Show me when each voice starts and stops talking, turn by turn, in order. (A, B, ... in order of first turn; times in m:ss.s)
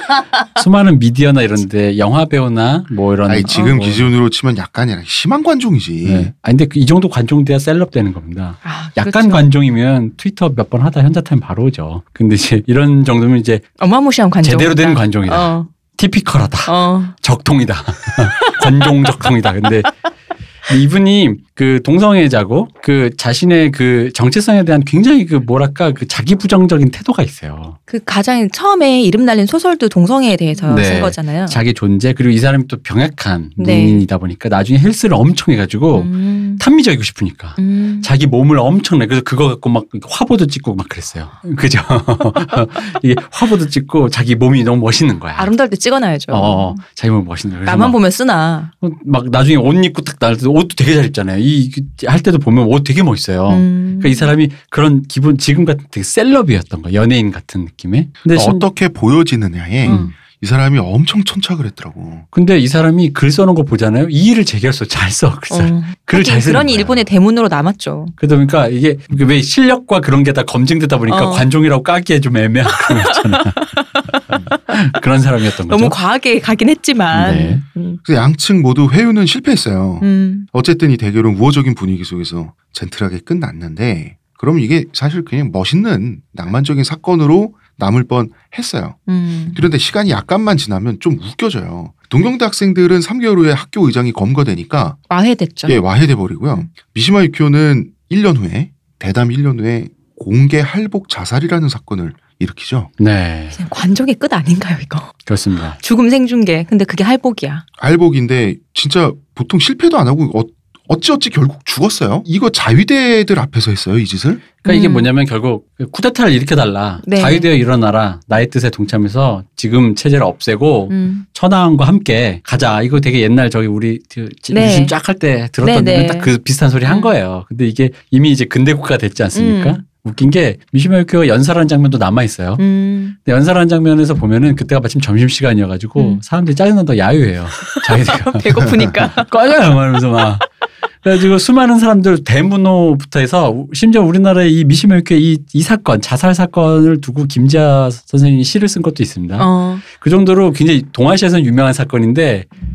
0:00.4-0:04.1 A
0:03.3-0:06.3 B
0:06.0-0:13.6 A
0:08.6-0:09.5 C
0:13.8-0:15.7 C
0:14.4-0:19.9 A
0:16.6-0:17.1 C
0:20.7-0:27.8 A
0:27.9-0:31.6 C
0:30.7-0:45.5 A
0:33.6-0:34.0 C
0:35.9-0:36.6 C
0:37.6-0:38.1 C
0:45.4-0:46.8 C
0:46.3-0:48.0 A
0:47.6-0:48.7 C
0:48.8-0:58.6 A
0:53.5-0:54.3 C
0:58.3-1:02.2 B
0:59.8-1:00.1 C
0:59.8-1:00.1 A
1:02.3-1:07.0 A
1:05.5-1:08.1 C
1:08.2-1:16.0 A
1:11.1-1:11.5 C
1:12.7-1:14.6 C
1:15.7-1:18.0 C
1:17.1-1:17.6 A
1:18.0-1:29.0 B
1:20.0-1:20.5 C
1:29.1-1:29.6 C
1:29.5-1:35.0 B
1:35.1-1:35.8 C
1:35.6-1:42.9 B
1:43.0-1:43.6 A
1:43.5-1:45.2 C
1:45.2-1:45.8 A
1:45.8-1:47.6 C
1:47.8-1:54.4 B
1:54.6-2:12.6 A
1:54.6-1:55.1 C
1:57.0-1:57.5 C
2:00.9-2:01.2 C
2:04.5-2:04.9 C
2:05.6-2:06.3 C
2:06.8-2:07.1 C
2:09.3-2:09.8 C
2:12.6-2:13.2 C
2:13.2-2:20.4 A
2:17.6-2:19.3 C
2:18.6-2:18.9 B
2:21.0-2:32.5 A
2:29.4-2:29.8 C